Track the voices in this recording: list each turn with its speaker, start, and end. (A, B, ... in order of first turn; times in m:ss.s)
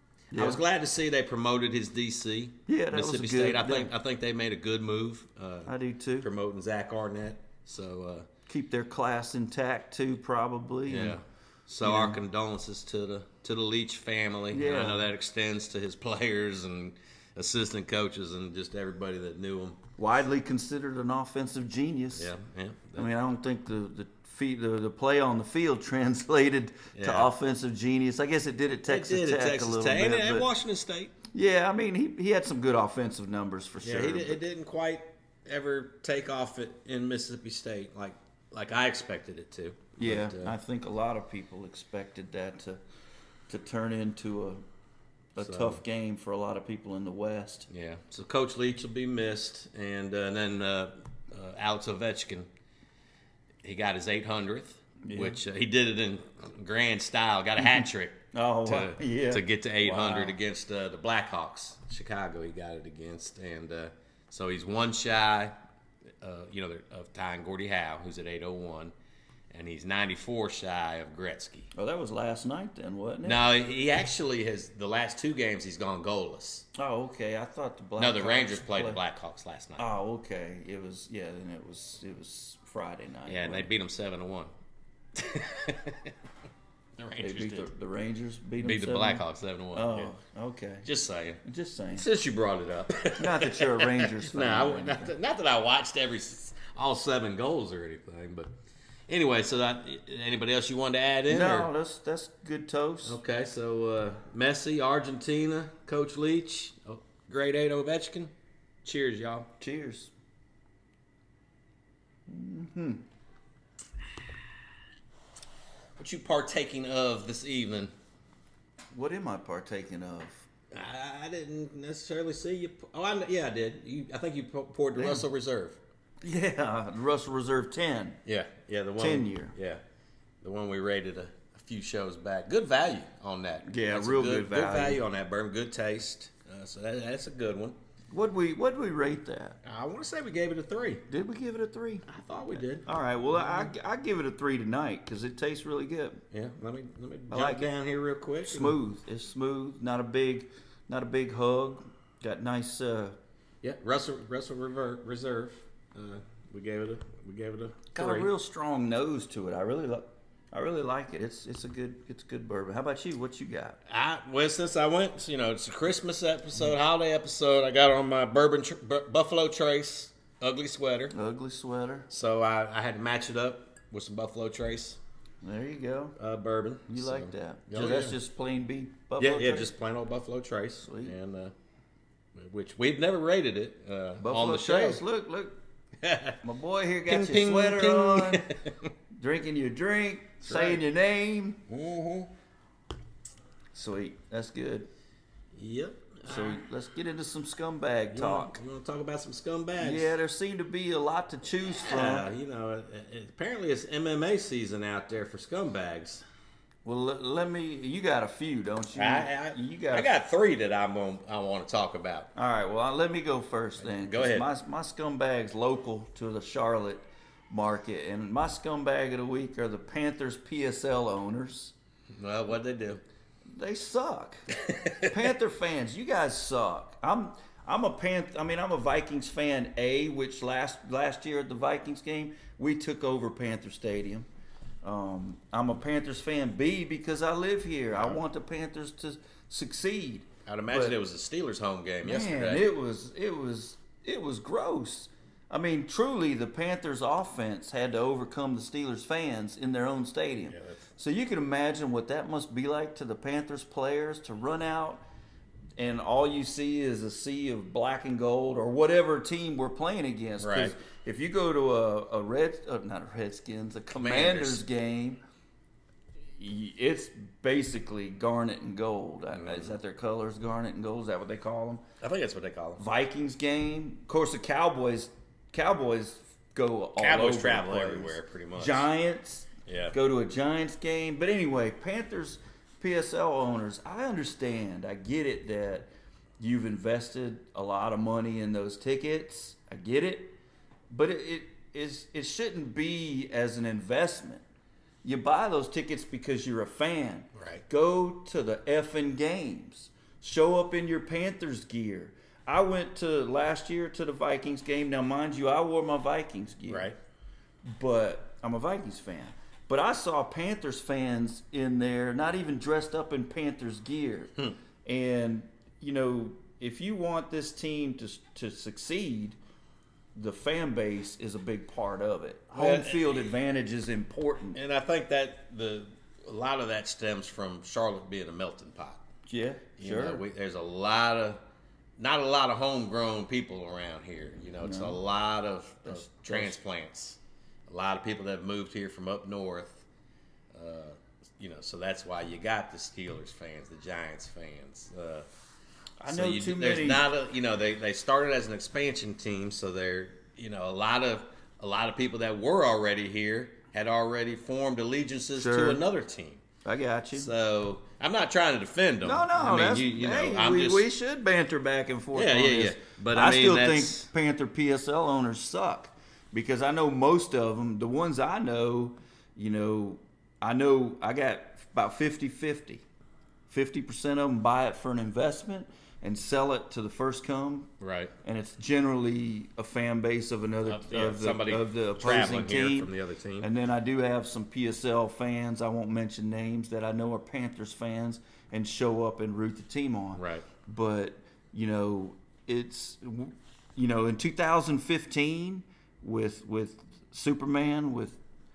0:00.3-0:00.6 A
0:00.3-0:08.3 B
0:02.7-0:03.9 A
0:05.6-0:06.3 A
0:08.5-0:11.2 A
0:10.9-0:19.8 B
0:11.8-0:12.2 A
0:14.5-0:15.0 A
0:20.0-0:22.3 A
0:22.2-0:23.1 B
0:23.0-0:30.5 A
0:26.9-0:27.3 B
0:28.8-0:31.2 B
0:31.3-0:34.4 A
0:33.8-0:40.5 B
0:40.0-0:42.8 A
0:43.5-0:44.6 A
0:45.3-0:47.7 A
0:45.4-0:45.8 B
0:47.7-0:52.5 B
0:53.6-1:05.5 B
0:55.0-0:55.4 A
0:57.6-1:00.4 A
1:06.2-1:08.9 B
1:09.5-1:11.7 B
1:11.7-1:13.4 A
1:13.2-1:16.6 B
1:16.8-1:19.0 A
1:18.0-1:19.8 B
1:19.8-1:23.7 A
1:23.3-1:24.5 B
1:25.1-1:26.1 B
1:27.0-1:27.7 B
1:27.2-1:30.9 A
1:28.6-1:30.1 B
1:30.8-1:38.5 B
1:31.4-1:32.0 A
1:33.2-1:35.1 A
1:39.1-1:41.7 B
1:41.3-1:43.2 A
1:43.0-1:48.3 B
1:48.8-1:49.5 B
1:49.6-1:50.1 A
1:52.3-1:53.0 A
1:56.0-1:57.9 B
1:58.9-2:00.5 A
2:00.7-2:05.8 B
2:05.0-2:05.2 A
2:06.2-2:08.2 A
2:08.2-2:09.8 B
2:09.0-2:09.5 A
2:10.4-2:17.8 B
2:13.7-2:15.0 A
2:18.1-2:19.6 A
2:19.6-2:21.0 B
2:21.1-2:22.1 A
2:22.1-2:23.7 B
2:22.8-2:26.2 A
2:26.3-2:28.8 B
2:27.3-2:27.7 A
2:28.5-2:33.2 A
2:33.6-2:38.3 B
2:37.9-2:43.8 A
2:43.8-2:51.1 B
2:51.1-2:52.1 A
2:52.1-2:55.0 B
2:55.4-2:56.1 A
2:56.2-2:58.2 B
2:56.9-2:59.7 A
2:59.2-3:01.5 B
3:00.8-3:01.1 A
3:02.3-3:05.0 B
3:04.2-3:05.6 A
3:06.0-3:06.4 B
3:06.4-3:08.4 A
3:07.1-3:08.9 B
3:09.1-3:11.6 A
3:10.4-3:10.8 B
3:11.7-3:12.3 B
3:13.7-3:14.9 A
3:15.5-3:16.6 B
3:16.2-3:18.6 A
3:18.1-3:20.1 B
3:19.8-3:22.3 A
3:21.8-3:26.2 B
3:26.8-3:30.1 A
3:28.9-3:32.3 B
3:32.3-3:41.7 A
3:33.8-3:34.4 B
3:42.1-3:43.0 B
3:43.5-3:44.4 A
3:44.6-3:45.2 B
3:45.0-3:54.3 A
3:54.8-4:01.0 A
4:00.4-4:02.6 B
4:02.0-4:15.0 A
4:10.5-4:10.8 B
4:15.8-4:25.2 A
4:20.4-4:20.7 B
4:23.9-4:24.6 B
4:26.4-4:31.8 A
4:29.3-4:29.8 B
4:32.0-4:32.8 B
4:32.8-4:50.4 A
4:37.0-4:38.9 B
4:39.7-4:39.9 B
4:50.9-4:54.4 A
4:55.0-5:06.9 A
4:57.4-4:57.6 B
5:06.7-5:07.0 B
5:07.6-5:14.3 A
5:14.8-5:19.4 A
5:20.2-5:24.6 A
5:22.5-5:23.3 B
5:24.5-5:29.0 B
5:29.2-5:30.2 A
5:29.8-5:31.4 B
5:32.0-5:39.8 B
5:34.6-5:35.0 A
5:35.9-5:36.6 A
5:40.5-5:45.3 B
5:46.0-5:47.1 A
5:46.1-5:56.4 B
5:55.4-5:55.8 A
5:56.6-5:57.3 A
5:57.1-6:00.9 B
5:59.0-6:12.8 A
6:02.1-6:04.1 B
6:13.5-6:17.7 A
6:17.8-6:18.1 B
6:18.2-6:38.2 A
6:20.6-6:23.5 B
6:30.1-6:30.5 B